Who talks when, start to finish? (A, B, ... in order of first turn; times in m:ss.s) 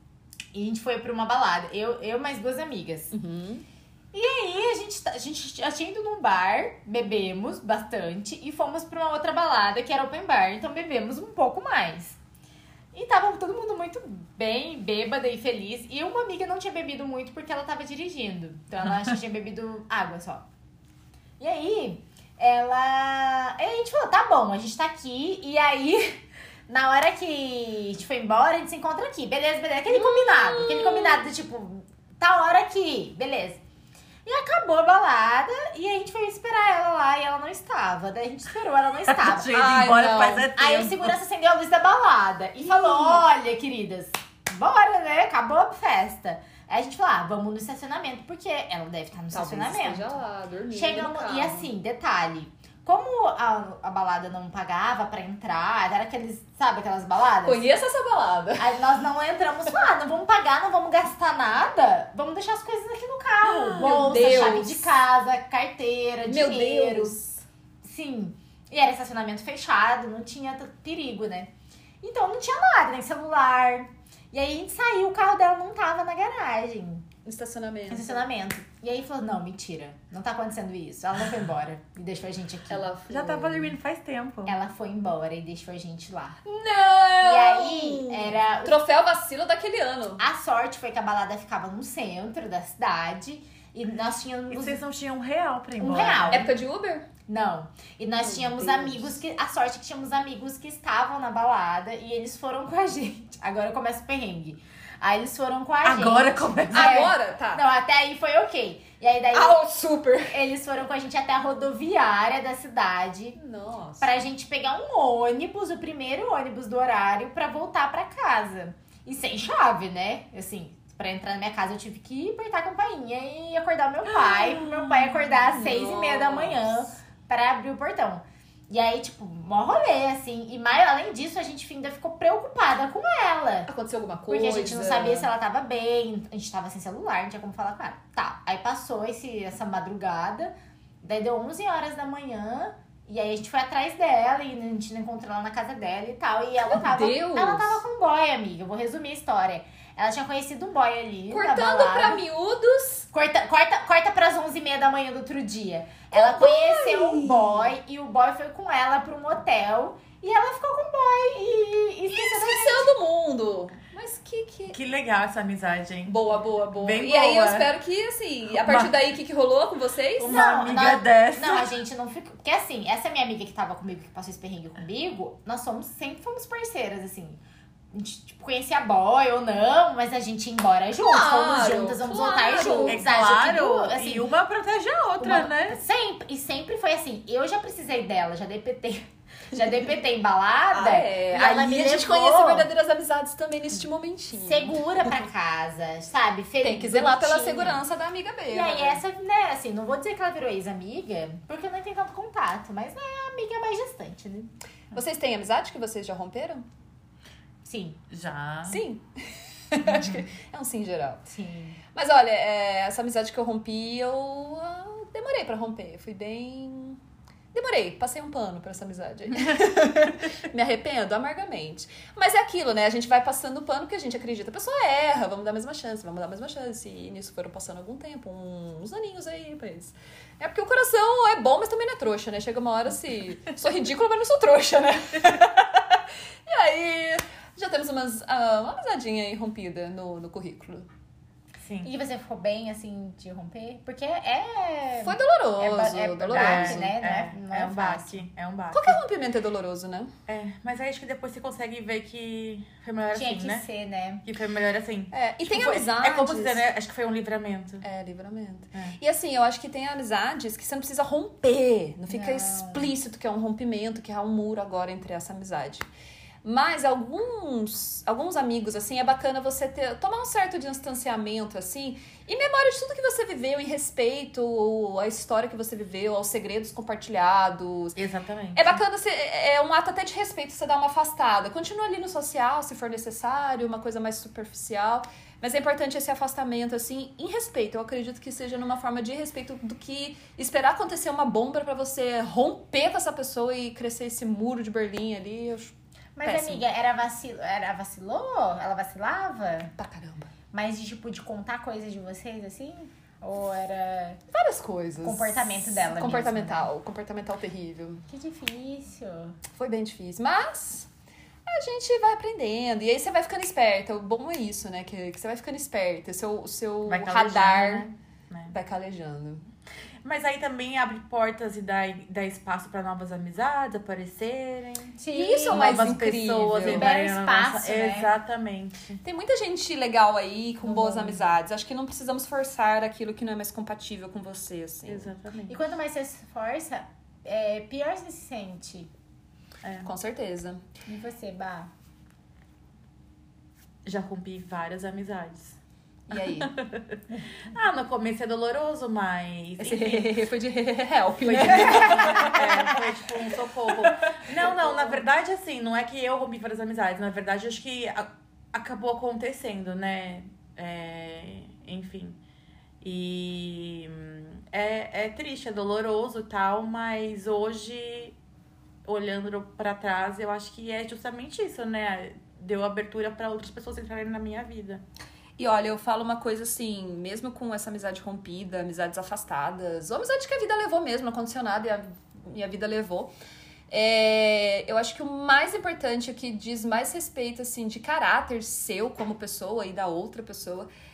0:00.5-0:03.1 A
0:03.1-0:03.6 B
0:04.1-0:12.2 A
0:12.9-0:20.4 A
0:21.4-0:33.6 A
0:29.9-0:31.3 B
0:34.2-0:50.2 A
0:39.1-0:41.1 C
0:39.5-0:40.5 B
0:42.6-0:43.2 B
0:49.3-0:51.7 B
0:50.7-0:57.6 A
0:57.4-0:58.7 B
0:58.6-1:07.2 A
1:03.6-1:04.9 B
1:03.7-1:04.0 C
1:06.2-1:07.4 B
1:07.8-1:11.5 A
1:12.0-1:17.1 A
1:17.2-1:18.2 B
1:17.9-1:22.9 A
1:22.7-1:23.8 B
1:23.1-1:24.5 C
1:24.4-1:26.4 A
1:26.4-1:30.2 B
1:27.2-1:28.8 A
1:30.2-1:34.8 A
1:34.5-1:36.4 C
1:35.8-1:36.5 A
1:36.3-1:37.1 B
1:37.3-1:49.6 A
1:38.2-1:39.1 B
1:45.8-1:47.1 C
1:46.7-1:47.6 B
1:49.3-1:50.4 B
1:50.3-1:53.4 A
1:53.4-1:54.1 B
1:54.0-2:13.7 A
2:04.0-2:06.9 B
2:13.7-2:15.3 B
2:14.3-2:32.2 A
2:26.6-2:27.8 B
2:31.3-2:33.1 B
2:33.1-2:42.9 A
2:36.1-2:37.7 B
2:42.1-2:44.8 B
2:44.7-2:46.2 C
2:46.1-2:50.5 B
2:46.8-2:47.7 C
2:48.5-2:48.9 C
2:50.2-2:51.7 C
2:50.2-2:57.4 A
2:57.9-3:04.3 A
3:00.9-3:03.0 B
3:02.8-3:05.8 C
3:05.2-3:12.7 A
3:10.7-3:14.8 B
3:14.3-3:17.8 A
3:16.6-3:19.0 B
3:18.5-3:24.5 A
3:24.9-3:26.6 B
3:27.6-3:28.0 A
3:28.1-3:28.8 C
3:28.6-3:31.2 B
3:31.3-3:31.8 A
3:31.9-3:37.0 B
3:37.5-4:00.9 B
4:01.6-4:01.9 C
4:01.8-4:08.2 A
4:05.0-4:06.9 B
4:06.3-4:09.0 C
4:08.7-4:10.1 B
4:10.3-4:13.6 C
4:13.1-4:14.2 A
4:14.2-4:17.8 C
4:15.1-4:16.6 B
4:17.8-4:25.8 B
4:22.1-4:22.9 A
4:26.4-4:38.0 B
4:38.0-4:38.8 C
4:38.5-4:56.6 B
4:56.2-4:59.7 A
4:59.8-5:00.3 B
5:00.5-5:04.2 A
5:04.3-5:08.0 B
5:05.0-5:06.7 A
5:08.1-5:09.4 A
5:09.5-5:10.9 B
5:11.5-5:17.9 B
5:16.9-5:18.5 C
5:18.5-5:19.4 B
5:20.0-5:24.9 C
5:25.0-5:25.9 A
5:25.1-5:26.9 B
5:25.5-5:29.0 C
5:26.6-5:28.1 A
5:29.0-5:35.1 B
5:30.6-5:31.3 A
5:34.9-5:35.6 C
5:35.5-5:38.9 A
5:39.6-5:39.9 C
5:39.8-5:40.6 B
5:40.9-5:41.7 A
5:43.8-5:45.6 C
5:46.1-5:46.5 B
5:46.1-5:50.1 C
5:49.6-5:52.7 B
5:51.2-6:02.2 C
5:51.6-5:52.4 A
6:02.8-6:08.2 C
6:08.8-6:14.8 C
6:15.4-6:23.1 B
6:23.7-6:30.7 B